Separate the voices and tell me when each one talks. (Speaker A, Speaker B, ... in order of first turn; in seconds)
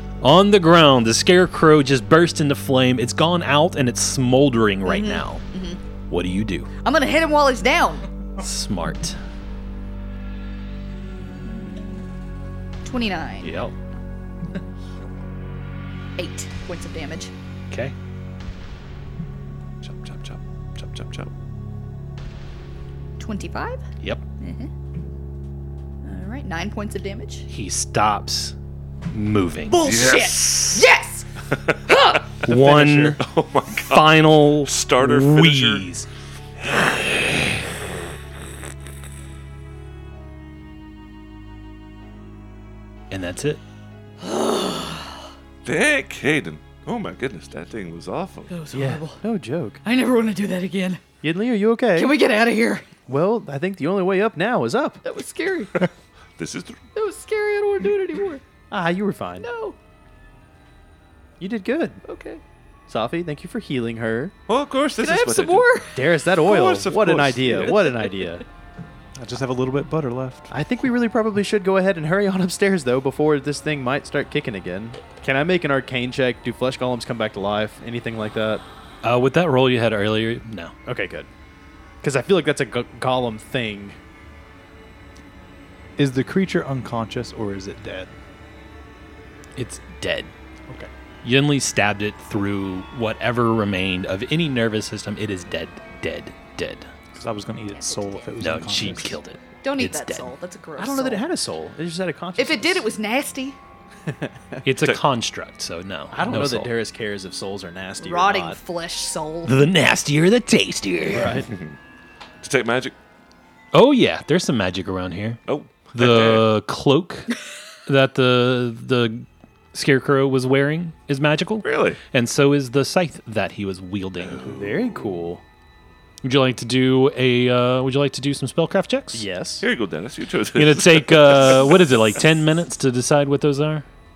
Speaker A: 0.2-5.4, 6.1-6.7, 8.4-9.2, 13.4-13.7, 27.5-28.6, 29.1-29.8, 32.4-33.2, 33.8-36.1, 43.1-43.6, 79.0-80.7, 89.6-90.3, 91.2-96.9, 98.4-100.3, 104.6-106.7, 109.5-111.4, 113.7-115.4, 115.9-117.3, 117.9-124.4, 126.2-129.2, 130.6-133.8
Speaker B: 4.8-5.8, 6.8-8.1, 11.4-12.0, 12.8-13.6, 16.2-17.3, 23.2-23.8, 24.4-24.7, 26.0-27.5, 29.7-31.3, 31.9-32.3, 44.2-45.2, 48.5-49.2, 49.8-51.0, 52.0-52.9, 55.0-55.9, 57.0-58.4, 59.4-59.8, 62.0-62.4, 65.0-66.0, 97.8-98.3, 99.6-101.3, 102.4-103.6, 108.0-109.7
Speaker C: 19.8-21.3, 29.8-30.9, 33.2-35.9, 45.6-48.6, 56.4-56.8, 64.5-65.8, 66.4-68.0, 111.3-111.8, 112.4-113.0, 115.5-116.5, 121.6-122.0, 124.3-125.3, 129.6-131.8
Speaker D: 32.5-33.2, 48.7-49.8, 51.2-52.1, 53.1-55.0, 58.7-59.5, 61.4-62.0, 62.9-64.3, 65.9-68.5, 70.5-78.6, 80.9-81.3, 82.0-84.0, 100.8-102.9, 104.1-104.6, 106.1-108.6, 111.1-111.5, 124.4-125.4, 129.1-129.7
Speaker E: 69.2-70.5, 86.0-88.1, 97.2-99.2